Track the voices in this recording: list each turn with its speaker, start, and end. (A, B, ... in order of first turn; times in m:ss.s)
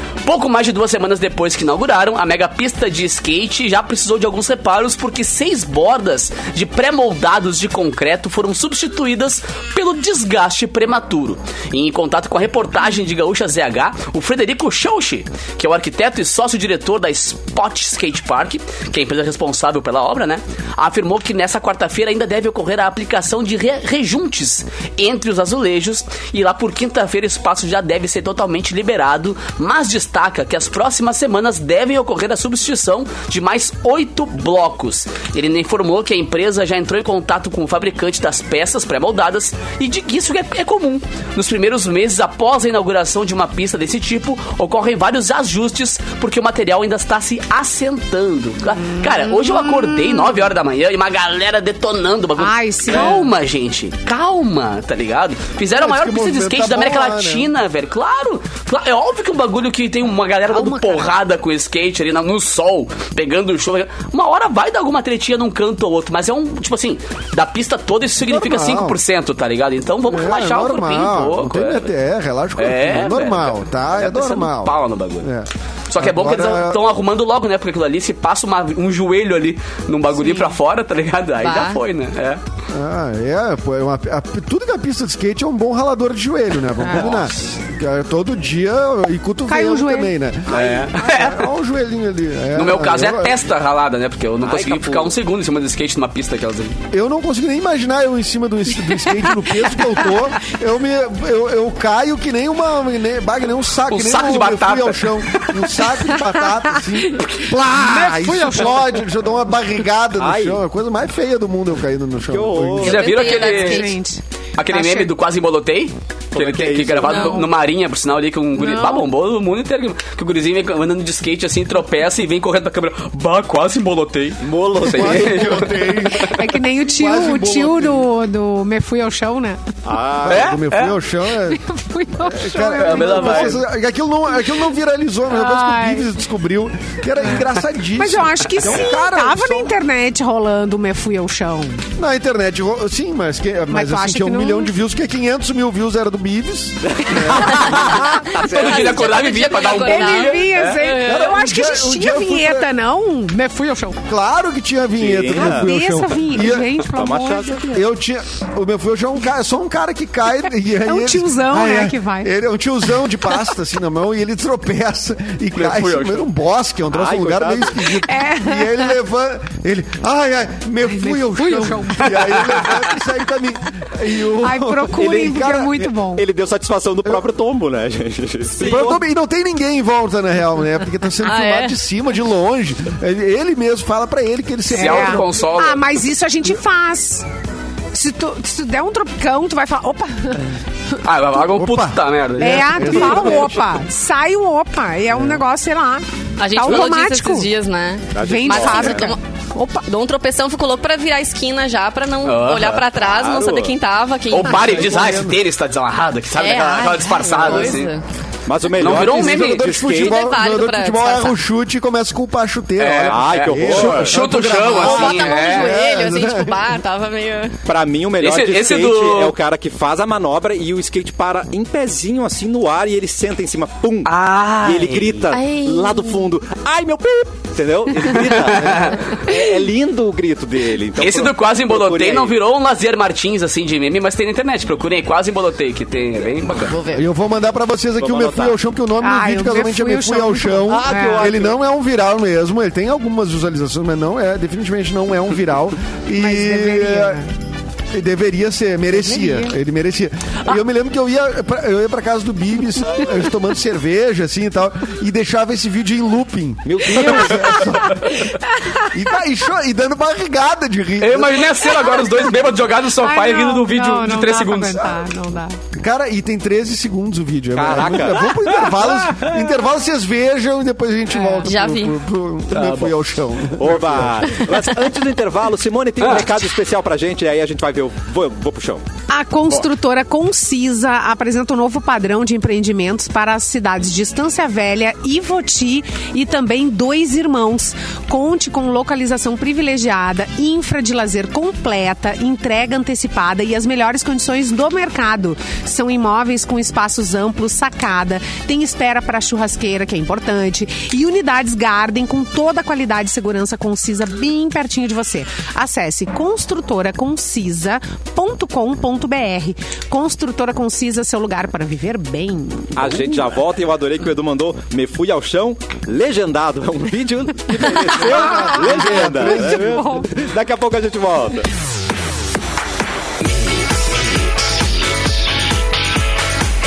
0:00.2-1:11.9 A
0:48.7-0:50.4 B
0:52.4-0:53.3 B
0:55.7-0:57.5 C
1:00.5-1:01.1 B
1:08.2-1:09.0 C
1:10.1-1:16.8 C
1:12.6-1:15.3 A
1:15.9-1:22.4 A
1:21.4-1:21.8 D
1:22.7-1:33.4 C
1:26.8-1:27.1 B
1:29.5-1:30.1 B
1:30.5-1:31.4 A
1:30.5-1:30.8 E
1:32.5-1:36.8 A
1:34.4-1:35.1 E
1:36.9-1:53.0 C
1:43.9-1:45.7 A
1:47.2-1:49.0 B
1:50.2-1:50.6 E
1:52.3-1:53.2 E
1:52.8-1:53.9 D
1:52.8-1:53.9 A
1:53.1-1:55.1 B
1:54.6-2:06.4 A
1:56.3-1:57.4 E
1:58.6-1:59.1 B
2:04.4-2:05.7 E
2:04.9-2:08.1 C
2:06.3-2:09.7 B
2:09.8-2:10.5 E
2:10.2-2:11.6 C
2:10.3-2:11.0 A
2:11.5-2:13.6 B
2:12.2-2:19.7 C
2:12.8-2:13.6 A
2:15.3-2:16.1 B
2:18.0-2:21.8 B
2:18.7-2:19.0 E
2:22.0-2:27.8 C
2:23.7-2:24.7 B
2:26.8-2:29.0 E
2:27.4-2:31.3 D
2:27.6-2:30.8 A
2:29.8-2:34.0 B
2:31.0-2:32.7 C
2:34.1-2:36.7 C
2:35.0-2:35.7 E
2:35.4-2:37.8 B
2:36.3-2:37.7 E
2:37.7-2:55.6 C
2:40.8-2:42.3 B
2:45.6-2:46.3 A
2:46.9-2:48.0 E
2:47.9-2:48.9 B
2:50.9-2:52.3 B
2:52.0-2:53.0 A
2:54.4-2:56.2 B
2:54.9-2:59.0 E
2:58.6-3:05.3 C
3:01.2-3:01.8 D
3:04.7-3:05.8 A
3:04.7-3:07.3 B
3:07.9-3:10.6 B
3:11.0-3:12.9 A
3:11.4-3:13.5 C
3:12.4-3:17.5 B
3:12.8-3:13.6 E
3:16.4-3:25.0 D
3:18.1-3:19.1 E
3:18.2-3:19.8 B
3:22.2-3:22.8 A
3:23.0-3:23.7 E
3:24.3-3:27.9 A
3:24.5-3:25.4 C
3:26.4-3:28.0 D
3:28.4-3:30.2 E
3:28.8-3:29.7 A
3:28.8-3:36.6 C
3:29.8-3:31.4 D
3:32.8-3:35.7 A
3:33.0-3:34.3 E
3:34.5-3:37.6 D
3:37.6-3:52.3 E
3:38.2-3:39.3 A
3:44.0-3:45.2 A
3:45.3-3:46.3 D
3:48.1-3:49.1 A
3:51.0-3:56.7 A
3:56.6-3:57.0 D
3:56.9-4:07.2 C
3:58.0-3:58.6 E
3:59.0-4:01.3 B
4:00.7-4:01.6 E
4:06.2-4:07.3 B
4:07.9-4:18.1 C
4:08.9-4:09.5 B
4:16.6-4:17.9 E
4:17.5-4:18.9 B
4:18.9-4:21.7 C
4:21.0-4:24.9 A
4:21.7-4:22.3 B
4:23.0-4:25.6 B
4:25.8-4:34.5 C
4:27.5-4:29.6 E
4:31.2-4:31.4 B
4:31.4-4:32.0 D
4:32.5-4:33.0 A
4:33.5-4:38.8 E
4:36.0-4:36.3 A
4:39.1-5:13.2 B
5:12.7-5:21.5 E
5:17.6-5:20.2 B
5:17.9-5:19.9 C